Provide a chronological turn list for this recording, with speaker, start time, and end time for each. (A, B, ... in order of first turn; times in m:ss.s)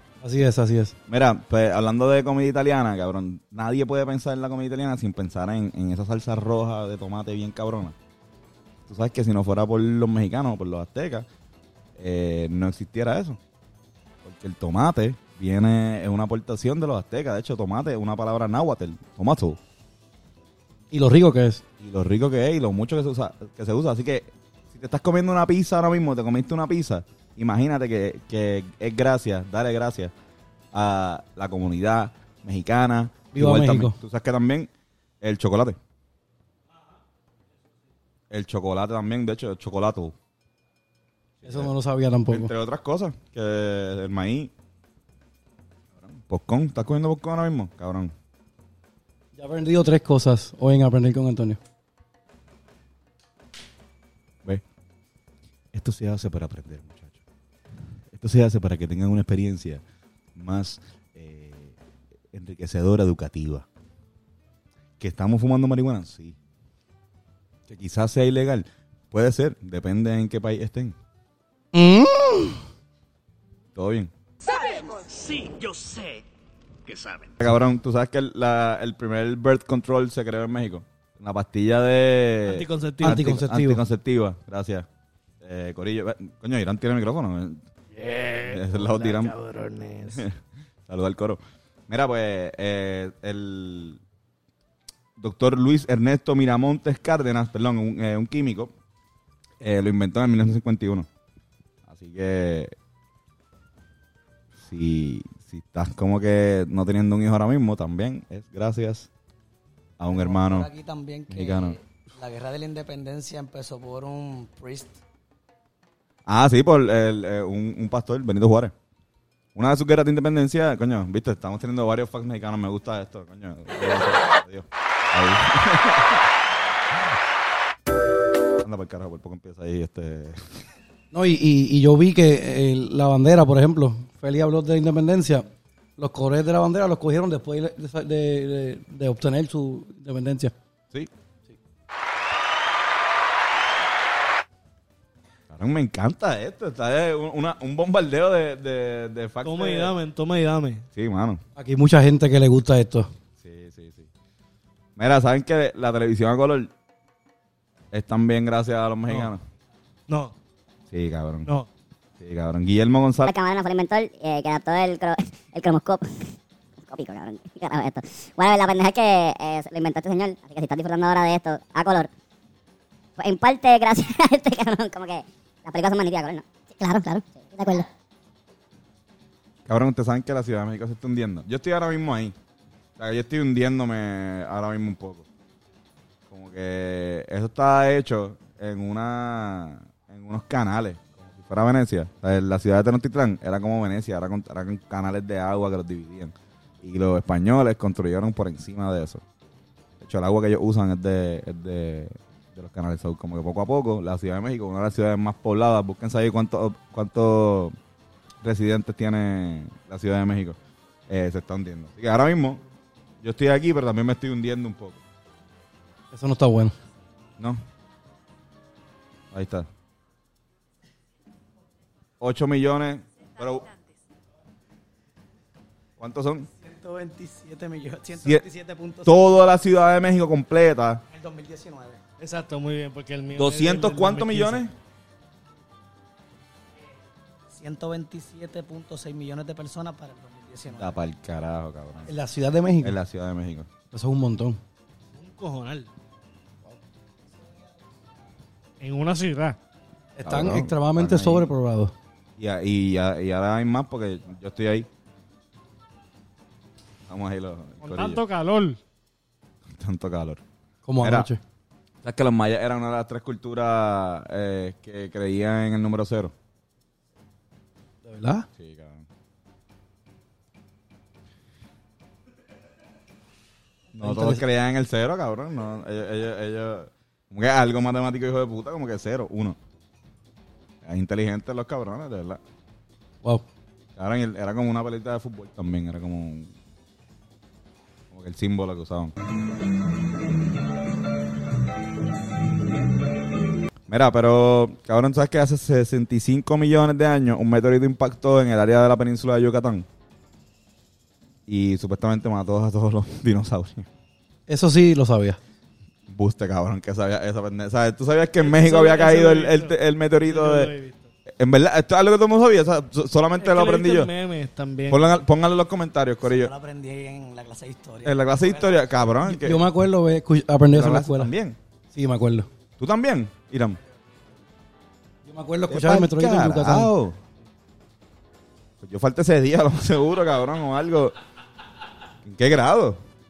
0:00.2-0:01.0 A
0:01.1-0:08.0 B
0:08.9-0:11.3 B
0:12.0-0:13.4 B
0:14.2-0:19.6 B
0:20.9-0:21.6 A
0:21.8-0:30.1 B
0:30.7-0:34.7 B
0:33.3-0:34.0 A
0:35.2-0:35.8 B
0:38.3-0:40.1 B
0:41.4-0:41.7 B
0:41.4-0:42.5 A
0:42.3-0:44.5 B
0:46.0-0:48.1 B
0:49.3-0:51.6 A
0:55.7-0:57.2 B
0:58.1-0:59.8 B
1:00.4-1:01.8 B
1:02.3-1:03.7 B
1:05.0-1:06.4 B
1:07.7-1:11.0 B
1:11.7-1:12.6 A
1:13.7-1:14.1 B
1:14.5-1:16.2 C
1:16.9-1:17.3 C
1:17.4-1:24.9 B
1:22.4-1:23.2 C
1:23.0-1:23.8 A
1:25.4-1:27.6 B
1:27.9-1:30.2 C
1:28.4-1:29.4 B
1:30.9-1:34.0 B
1:35.2-1:38.7 B
1:39.6-1:41.1 B
1:41.9-1:42.7 B
1:44.6-1:49.1 B
1:50.0-1:50.7 B
1:50.1-1:55.0 D
1:51.3-1:51.8 B
1:56.3-1:58.7 B
1:59.6-2:06.2 B
2:08.6-2:10.4 B
2:11.1-2:20.5 A
2:25.5-2:29.9 B
2:29.4-2:30.8 C
2:30.9-2:31.4 B
2:31.6-2:33.1 A
2:33.4-2:34.1 B
2:35.0-2:36.7 B
2:37.9-2:39.4 B
2:39.1-2:39.3 C
2:40.1-2:40.3 C
2:40.9-2:41.5 B
2:42.2-2:43.3 B
2:43.2-2:52.1 E
2:53.2-2:57.9 E
2:59.7-3:02.3 B
3:03.0-3:05.2 B
3:06.3-3:19.2 B
3:20.0-3:27.7 B
3:28.4-3:30.6 B
3:31.1-3:32.6 B
3:33.2-3:35.0 B
3:36.1-3:36.8 A
3:37.4-3:37.6 B
3:39.3-3:39.7 B
3:42.2-3:43.8 B
3:46.0-3:46.5 B
3:46.6-3:49.4 D
3:49.0-3:51.0 B
3:51.1-3:52.0 D
3:52.2-3:54.6 C
3:53.4-3:54.7 B
3:57.5-4:01.0 D
4:00.8-4:02.1 B
4:02.0-4:03.0 A
4:02.8-4:03.7 B
4:03.9-4:04.6 A
4:05.1-4:05.9 C
4:08.8-4:09.6 C
4:10.2-4:11.9 A
4:10.2-4:11.5 B
4:12.4-4:14.9 B
4:17.1-4:18.2 B
4:17.8-4:18.8 C
4:19.8-4:20.4 B
4:20.8-4:21.4 A
4:21.0-4:21.3 B
4:22.0-4:26.3 B
4:28.0-4:28.5 A
4:28.6-4:29.0 B
4:33.9-4:39.6 B
4:34.0-4:34.4 A
4:40.8-4:42.4 B
4:44.0-4:46.5 B
4:48.1-4:49.1 B
4:53.9-4:59.8 B
5:01.5-5:03.8 B
5:04.5-5:05.4 A
5:06.1-5:10.7 B
5:08.4-5:11.1 C
5:11.4-5:14.1 B
5:13.4-5:15.2 C
5:14.9-5:16.5 B
5:16.2-5:18.8 D
5:18.0-5:19.7 B
5:19.3-5:21.3 A
5:20.7-5:21.6 B
5:21.9-5:22.5 A
5:22.8-5:23.8 B
5:25.2-5:26.9 A
5:25.7-5:27.2 B
5:28.8-5:31.2 B
5:32.2-5:33.0 B